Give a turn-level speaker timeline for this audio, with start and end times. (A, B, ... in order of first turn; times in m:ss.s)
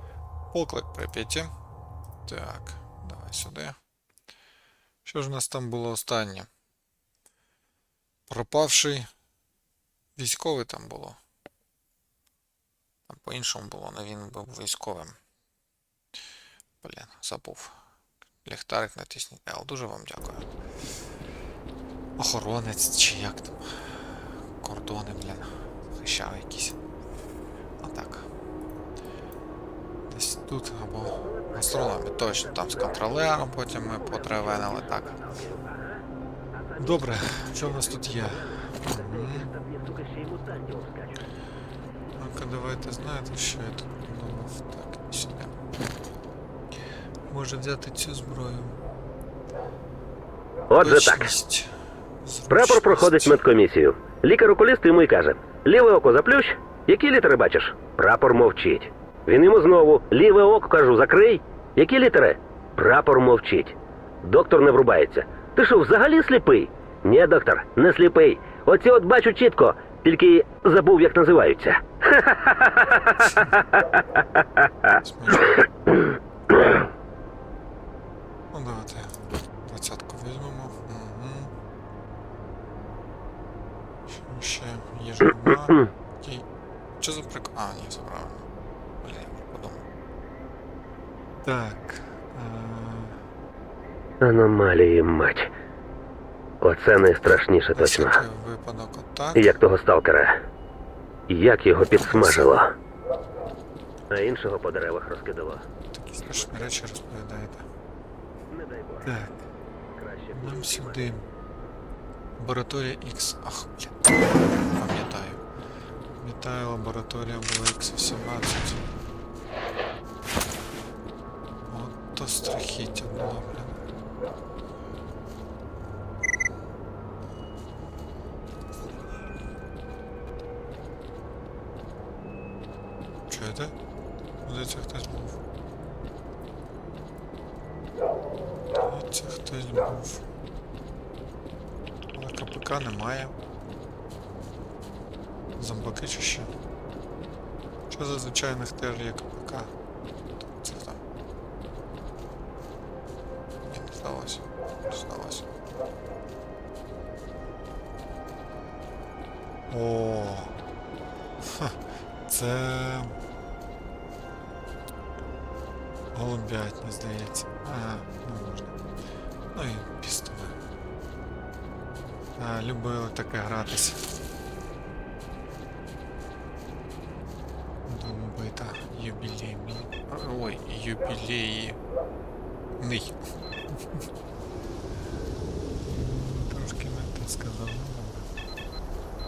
0:00.5-0:01.5 A
0:02.2-0:03.8 A
0:05.0-0:06.5 A
0:08.3-0:09.1 A
0:10.2-0:11.2 A
0:13.1-0:15.1 A
0:16.8-0:17.7 A
0:18.4-0:20.5 A
0:22.2-0:26.8 A
0:27.8-0:28.3 A
0:30.1-0:35.2 A
0:33.9-0:36.0 B
0:36.8-0:39.5 A
0:37.6-0:41.2 B
0:42.2-0:45.8 A
0:47.3-0:48.8 A
0:50.7-0:51.3 B
0:50.8-0:51.7 A
0:52.2-0:53.4 A
0:52.5-1:14.9 B
1:13.2-1:13.6 A
1:15.0-1:15.6 A
1:18.5-1:21.5 A
1:24.1-1:26.4 A
1:27.0-1:28.4 A
1:29.0-1:29.8 A
1:31.4-1:33.2 A
1:34.2-1:35.5 B
1:36.6-1:38.2 B
1:37.7-1:39.6 A
1:39.4-1:40.4 B
1:41.3-1:42.7 B
1:41.8-1:42.6 A
1:44.1-1:45.7 B
1:45.9-1:47.7 A
1:48.5-1:49.1 B
1:49.0-1:49.4 A
1:49.9-1:51.0 B
1:50.3-1:51.2 A
1:52.4-1:55.4 A
1:56.2-1:58.8 A
2:01.7-2:03.8 A
2:13.3-2:13.7 A
2:14.4-2:15.4 A
2:18.8-2:20.2 A
2:22.1-2:23.3 A
2:25.6-2:26.5 A
2:27.9-2:29.7 A
2:30.4-2:31.0 A
2:33.6-2:35.5 A
2:39.7-2:40.6 A
2:41.4-2:43.2 A
2:46.1-2:48.8 A
2:49.5-2:50.5 A
2:52.4-2:54.0 A
2:57.8-3:01.8 A
3:02.8-3:04.0 A
3:05.9-3:08.3 A